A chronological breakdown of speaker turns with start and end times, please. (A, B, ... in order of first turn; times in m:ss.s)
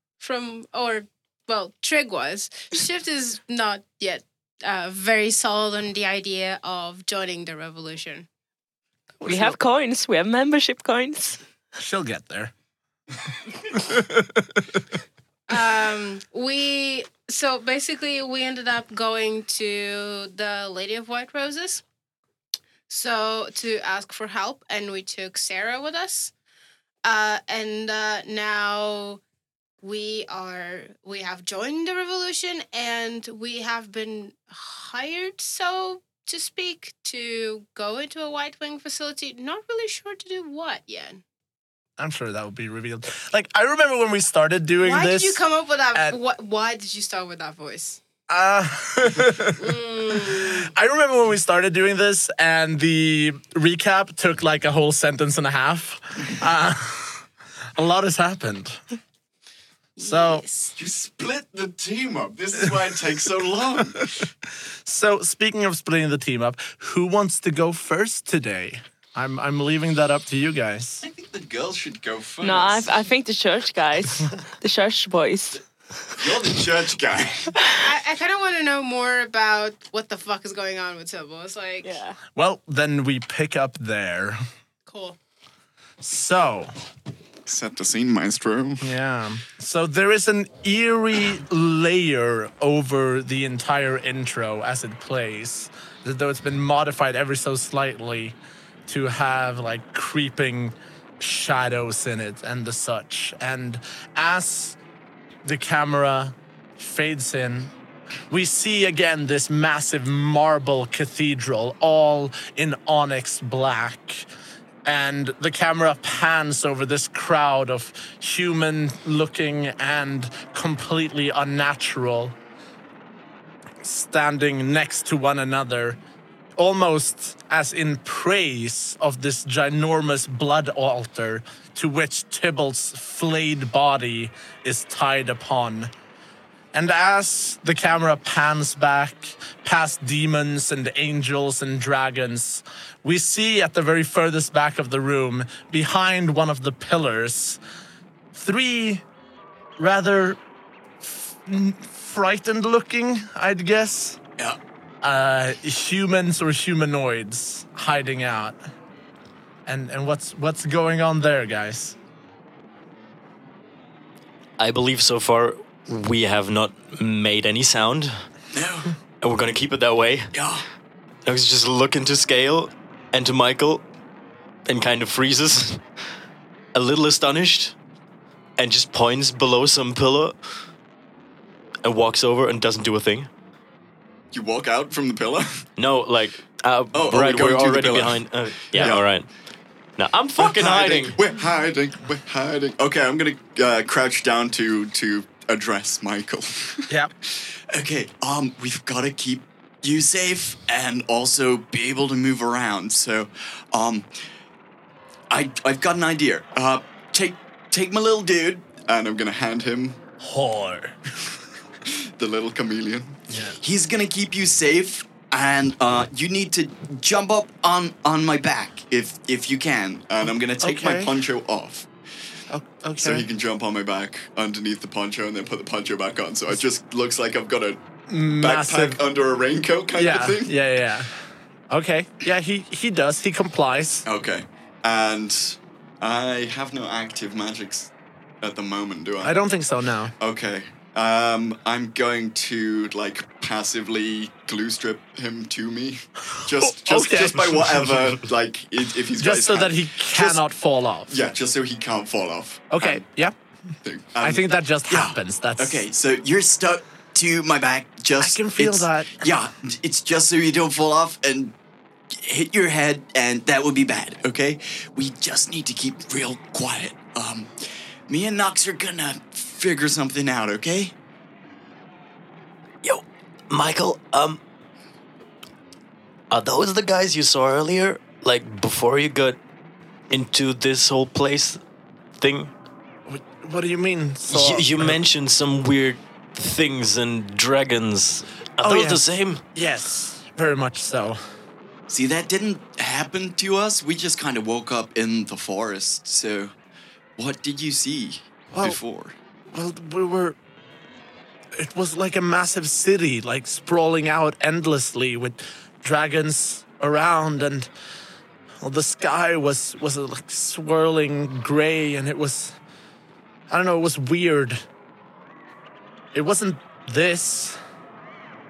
0:00.2-0:08.3 A
0:09.2-0:09.6 B
0:09.2-0:11.4 C
0:11.8-0:12.5 B
0:13.7-0:14.4 B
0:15.5-0:21.8 A
0:22.9-0:26.3 A
0:27.0-0:29.2 A
0:29.8-0:41.2 A
0:42.0-0:45.4 B
0:44.8-0:48.0 A
0:48.3-0:49.6 B
0:49.6-0:50.7 A
0:50.3-0:57.2 B
0:57.8-0:58.8 B
1:00.0-1:00.7 A
1:00.0-1:00.4 B
1:00.8-1:04.2 D
1:04.8-1:11.0 B
1:11.0-1:12.9 D
1:12.4-1:15.6 C
1:16.1-1:17.6 D
1:17.8-1:22.0 A
1:21.8-1:22.2 C
1:22.4-1:24.4 B
1:24.8-1:25.2 A
1:26.0-1:26.7 B
1:27.4-1:28.9 D
1:28.8-1:38.4 B
1:38.9-1:44.8 B
1:45.4-1:47.7 B
1:48.3-1:54.2 B
1:54.8-2:02.4 B
2:03.8-2:06.0 B
2:06.6-2:15.9 B
2:16.7-2:27.6 B
2:28.3-2:29.0 B
2:29.8-2:30.4 B
2:31.0-2:34.2 B
2:35.0-2:38.6 B
2:39.7-2:41.9 B
2:44.6-2:48.1 E
2:48.5-2:48.9 D
2:49.2-2:50.3 E
2:50.3-2:50.6 D
2:51.2-2:53.8 E
2:54.7-2:55.8 E
2:56.7-2:57.7 E
2:58.6-3:00.3 E
3:01.8-3:03.3 E
3:04.3-3:05.6 D
3:05.8-3:09.3 E
3:06.9-3:08.2 D
3:08.7-3:09.1 D
3:10.0-3:11.2 E
3:10.4-3:24.1 D
3:25.3-3:30.0 D
3:30.2-3:31.0 B
3:31.8-3:41.9 D
3:33.3-3:33.6 B
3:40.6-3:41.1 B
3:42.5-3:43.2 B
3:43.0-3:47.8 D
3:48.1-3:49.0 B
3:48.4-3:50.6 D
3:50.0-3:51.1 B
3:51.7-3:54.0 B
3:54.0-3:59.4 D
3:59.2-4:00.1 B
4:00.2-4:10.4 D
4:06.4-4:08.0 B
4:09.2-4:11.2 B
4:11.1-4:13.0 D
4:12.7-4:13.3 B
4:13.8-4:21.6 D
4:14.2-4:15.8 B
4:18.2-4:19.2 B
4:22.1-4:27.5 D
4:28.1-4:30.9 D
4:32.8-4:34.4 E
4:36.3-4:39.4 E
4:40.1-4:41.6 E
4:42.2-4:42.5 E
4:43.1-4:45.0 B
4:44.3-4:49.4 E
4:48.6-4:49.0 B
4:49.5-4:51.2 B
4:51.9-4:56.5 D
4:57.2-4:59.2 D
4:58.5-4:58.8 B
4:59.5-5:00.4 B
5:01.6-5:07.7 B
5:08.6-5:12.6 B
5:13.5-5:14.6 B
5:16.1-5:17.6 B